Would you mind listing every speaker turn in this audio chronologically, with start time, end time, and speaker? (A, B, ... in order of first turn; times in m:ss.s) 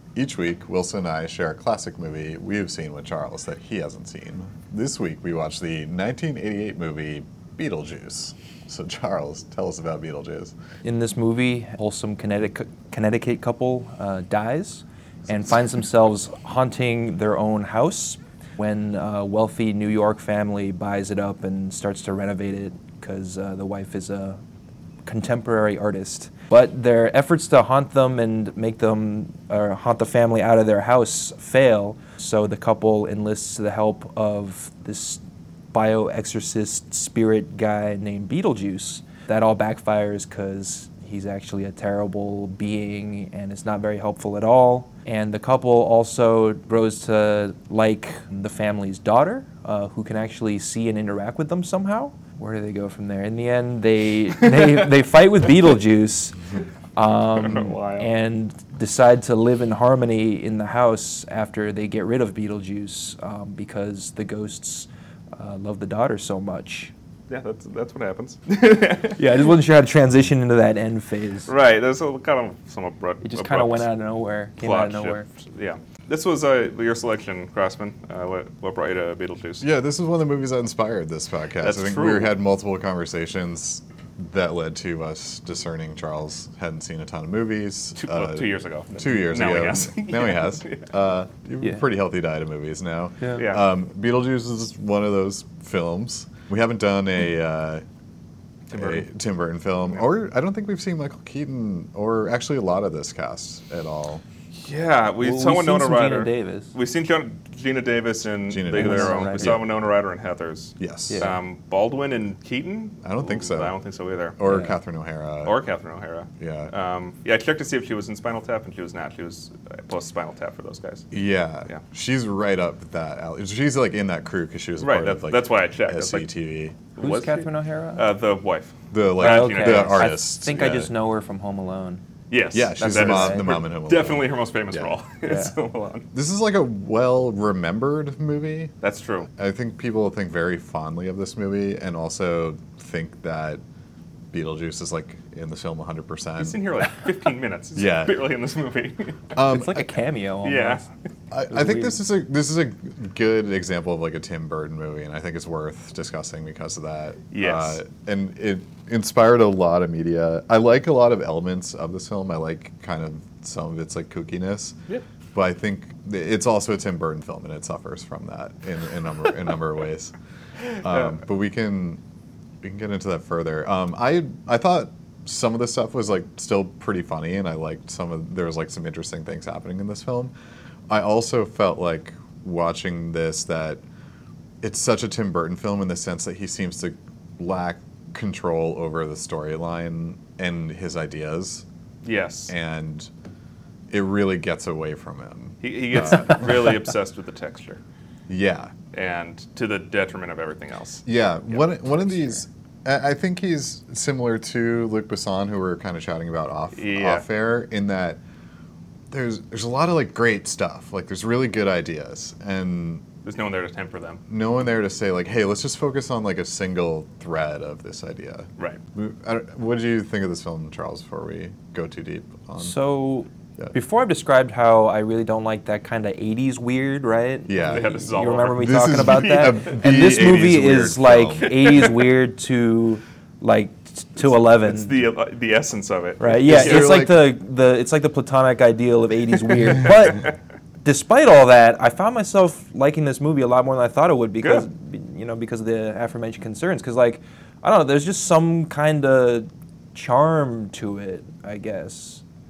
0:00.2-0:10.5 A
0:10.8-0:24.4 B
0:25.0-0:35.2 B
0:35.7-0:56.4 B
0:57.0-1:06.9 B
0:57.3-0:58.1 C
1:07.3-1:09.3 C
1:09.2-1:11.5 B
1:11.5-1:13.9 C
1:13.2-1:15.3 B
1:14.6-1:19.6 C
1:19.6-1:37.8 A
1:21.6-1:22.3 C
1:28.0-1:30.9 C
1:33.3-1:33.6 C
1:38.7-1:39.1 C
1:38.7-1:44.2 A
1:44.5-1:54.4 C
1:45.2-1:46.8 B
1:48.5-1:49.7 A
1:48.8-1:49.6 B
1:50.8-1:51.3 A
1:51.1-1:51.4 B
1:53.0-1:53.8 A
1:54.4-1:55.6 A
1:54.4-1:54.8 B
1:55.4-2:01.1 C
1:56.4-1:56.7 A
2:01.1-2:06.8 A
2:04.8-2:06.3 C
2:06.9-2:10.2 C
2:07.0-2:08.1 B
2:08.9-2:10.9 A
2:09.2-2:12.0 B
2:12.3-2:16.1 C
2:12.5-2:15.0 A
2:12.8-2:13.6 B
2:15.2-2:15.5 B
2:16.1-2:18.7 A
2:18.8-2:19.3 C
2:19.3-2:23.6 A
2:24.3-2:26.6 A
2:26.4-2:29.3 C
2:27.7-2:28.1 A
2:29.3-2:29.8 A
2:29.5-2:30.8 B
2:30.4-2:30.8 C
2:31.3-2:44.8 A
2:31.5-2:32.0 B
2:37.3-2:37.8 C
2:45.3-2:50.1 A
2:50.8-2:52.0 A
2:50.9-2:51.2 C
2:52.6-3:00.3 A
3:00.9-3:03.8 A
3:04.6-3:11.6 A
3:12.0-3:12.5 C
3:12.5-3:13.1 A
3:13.9-3:16.5 A
3:15.6-3:17.8 C
3:18.3-3:18.7 A
3:18.9-3:21.6 C
3:21.0-3:28.2 A
3:26.8-3:27.2 C
3:29.1-3:33.0 A
3:33.2-3:34.2 C
3:34.3-3:42.8 A
3:42.6-3:55.0 B
3:47.5-3:47.9 A
3:47.6-3:50.3 C
3:48.6-3:51.6 A
3:51.4-3:52.1 C
3:54.2-3:56.9 C
3:56.2-4:12.2 B
3:56.4-3:57.4 A